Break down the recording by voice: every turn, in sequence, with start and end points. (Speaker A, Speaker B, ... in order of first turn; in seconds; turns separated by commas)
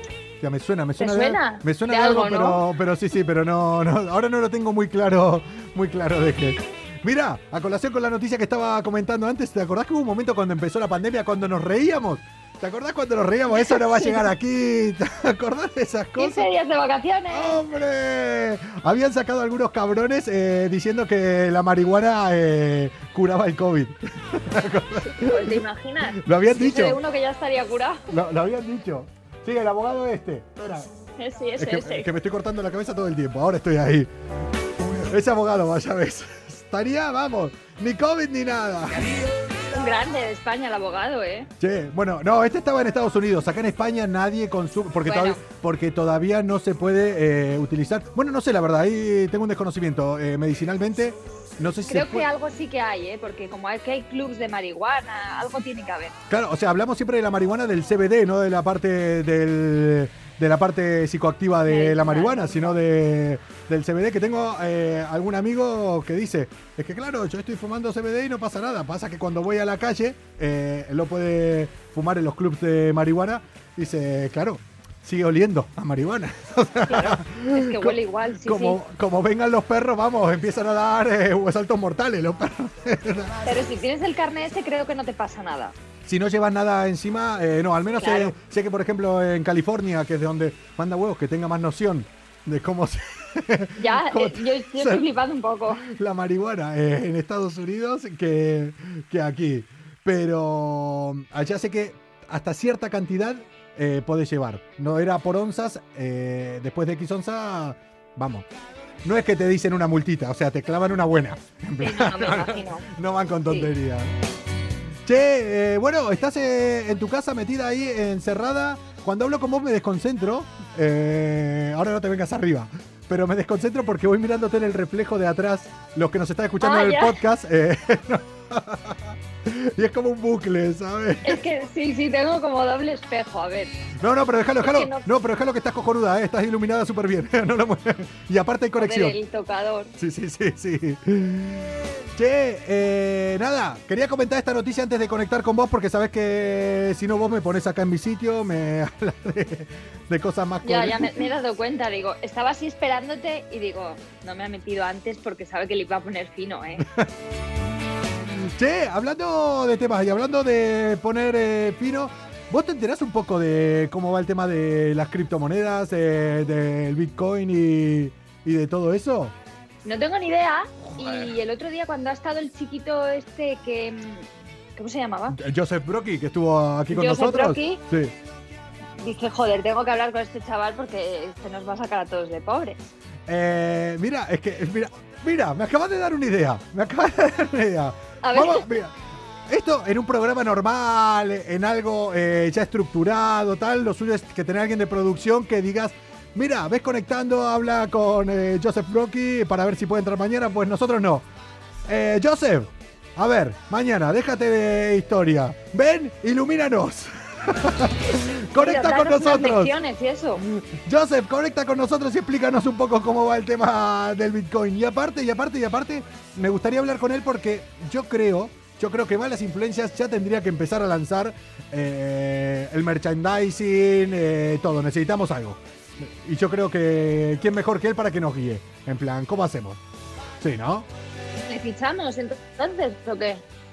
Speaker A: 0.4-16.5, Speaker B: 1.0-2.6, Speaker B: 13.7-14.2, Speaker B: 16.2-17.6, Speaker A: 17.3-27.0, Speaker B: 25.1-28.0, Speaker A: 28.1-30.9, Speaker B: 31.2-32.1, Speaker A: 31.6-34.1, Speaker A: 34.8-39.1, Speaker B: 39.7-41.5, Speaker A: 41.6-52.3, Speaker B: 45.0-45.4, Speaker B: 51.9-56.2, Speaker A: 56.3-83.4, Speaker B: 61.7-62.8, Speaker B: 76.9-78.8, Speaker B: 83.5-85.7, Speaker A: 86.1-95.1, Speaker B: 88.0-88.3, Speaker B: 93.8-95.9, Speaker A: 95.7-108.5, Speaker A: 109.0-114.1, Speaker B: 111.8-112.9, Speaker A: 115.1-131.4, Speaker B: 126.6-127.2, Speaker B: 131.2-133.7, Speaker A: 134.0-139.2, Speaker B: 134.6-135.1, Speaker B: 138.8-139.9, Speaker A: 140.0-151.3, Speaker B: 150.6-156.9, Speaker A: 158.4-169.3, Speaker B: 169.8-175.4, Speaker A: 170.9-171.3, Speaker A: 175.3-178.2, Speaker B: 176.9-177.8, Speaker B: 179.0-182.9, Speaker A: 183.3-188.9, Speaker B: 188.2-188.7, Speaker A: 189.5-201.3, Speaker A: 201.9-209.7, Speaker B: 208.5-210.4, Speaker A: 210.4-229.8, Speaker A: 230.4-230.9, Speaker B: 231.5-233.4